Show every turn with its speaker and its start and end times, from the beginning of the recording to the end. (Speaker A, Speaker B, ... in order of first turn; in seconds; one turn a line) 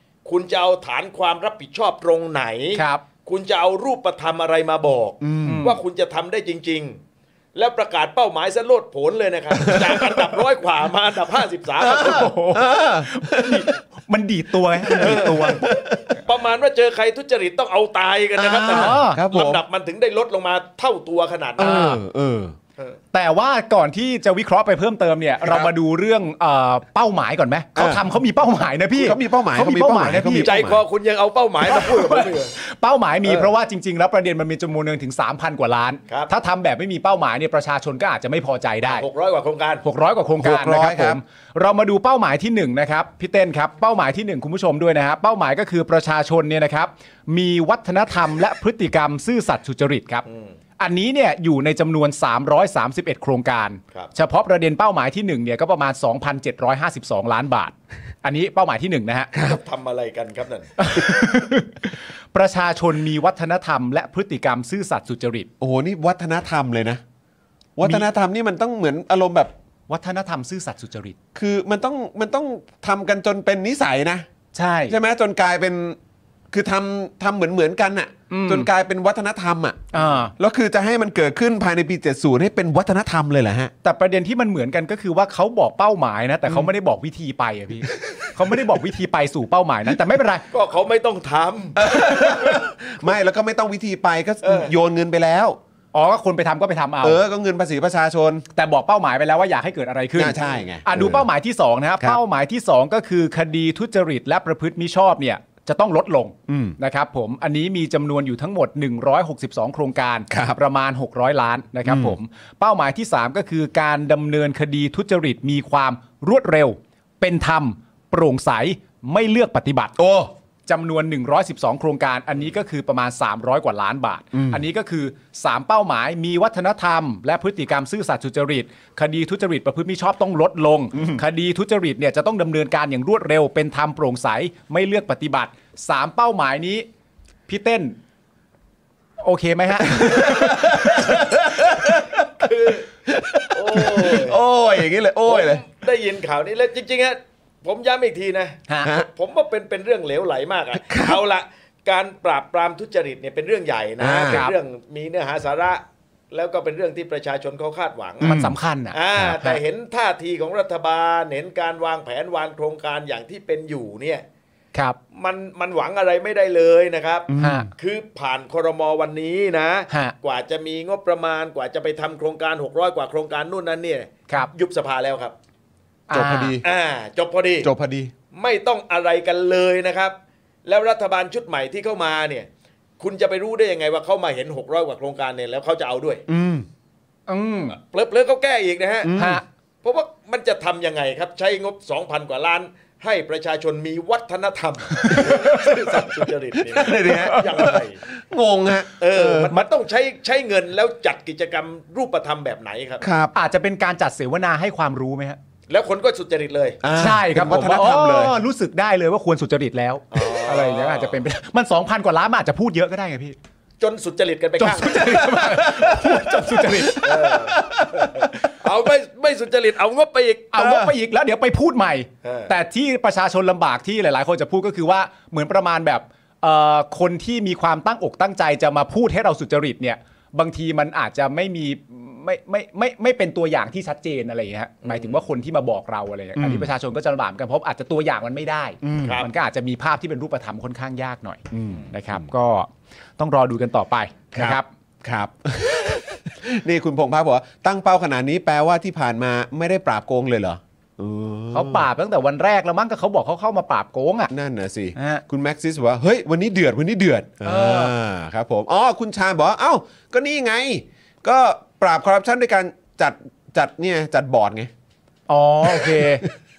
Speaker A: 0.2-7.0
Speaker B: 2.8-3.0
Speaker C: 5.2-5.7
Speaker B: 5.5-5.8
Speaker A: 7.5-12.3
Speaker C: 9.5-10.3
Speaker C: 11.8-13.7
Speaker B: 11.9-15.6
Speaker C: 14.9-15.8
Speaker A: 14.9-21.9
Speaker C: 18.4-19.6
Speaker B: 18.7-19.2
Speaker B: 21.6-22.0
Speaker C: 21.6-22.6
Speaker B: 23.1-30.5
Speaker C: 27.8-28.0
Speaker C: 29.0-30.8
Speaker A: 30.3-32.5
Speaker B: 31.6-39.0
Speaker A: 33.2-33.5
Speaker A: 38.8-39.8
Speaker B: 39.8-50.3
Speaker C: 40.4-41.2
Speaker A: 50.3-50.5
Speaker B: 50.8-59.3
Speaker C: 59.3-59.6
Speaker A: 59.4-60.8
Speaker B: 60.8-65.5
Speaker C: 65.6-67.0
Speaker C: 67.8-69.5
Speaker B: 69.9-71.2
Speaker C: 71.3-74.3
Speaker B: 74.5-75.0
Speaker C: 74.9-76.0
Speaker C: 76.5-83.7
Speaker B: 78.3-78.7
Speaker B: 79.9-80.3
Speaker B: 83.8-90.5
Speaker A: 90.5-91.8
Speaker C: 91.8-95.6
Speaker B: 92.2-92.5
Speaker A: 94.4-94.7
Speaker B: 95.9-97.2
Speaker C: 97.0-98.5
Speaker B: 98.5-120.0
Speaker C: 100.2-101.3
Speaker C: 106.5-106.8
Speaker C: 110.3-110.6
Speaker C: 111.8-112.2
Speaker C: 120.0-120.3
Speaker B: 120.7-136.9
Speaker C: 124.3-124.6
Speaker B: 137.5-137.9
Speaker B: 139.2-141.2
Speaker C: 139.9-142.4
Speaker A: 142.4-142.9
Speaker C: 143.1-145.6
Speaker A: 143.5-144.4
Speaker A: 145.2-158.4
Speaker C: 150.7-151.2
Speaker C: 154.0-154.4
Speaker B: 154.3-154.6
Speaker C: 158.2-158.5
Speaker B: 158.2-159.6
Speaker A: 158.9-164.2
Speaker A: 165.1-175.3
Speaker C: 167.3-167.7
Speaker B: 167.4-167.7
Speaker B: 176.1-176.6
Speaker C: 176.1-176.6
Speaker A: 176.6-177.7
Speaker C: 177.6-178.1
Speaker A: 178.3-180.2
Speaker A: 180.7-182.5
Speaker A: 183.0-186.2
Speaker C: 186.3-186.7
Speaker B: 187.3-187.8
Speaker A: 187.9-189.1
Speaker C: 189.0-189.4
Speaker B: 189.2-189.4
Speaker A: 189.8-198.0
Speaker B: 195.0-195.7
Speaker C: 196.7-197.7
Speaker B: 197.1-197.7
Speaker C: 198.3-199.5
Speaker A: 199.0-203.0
Speaker C: 203.0-203.3
Speaker B: 203.3-205.4
Speaker A: 205.7-206.8
Speaker C: 206.8-208.4
Speaker B: 206.9-213.4
Speaker A: 210.1-211.2
Speaker A: 213.8-215.2
Speaker B: 214.6-217.3
Speaker C: 215.3-218.3
Speaker A: 217.0-220.6
Speaker B: 220.5-244.7
Speaker C: 220.6-220.9
Speaker A: 222.2-222.5
Speaker A: 234.9-235.2
Speaker C: 236.4-236.7
Speaker C: 238.8-239.2
Speaker A: 239.0-239.3
Speaker C: 241.5-242.3
Speaker C: 244.3-251.9
Speaker B: 251.5-254.3
Speaker C: 254.3-264.7
Speaker B: 255.0-255.2
Speaker B: 257.4-257.9
Speaker B: 265.3-266.2
Speaker C: 265.7-266.3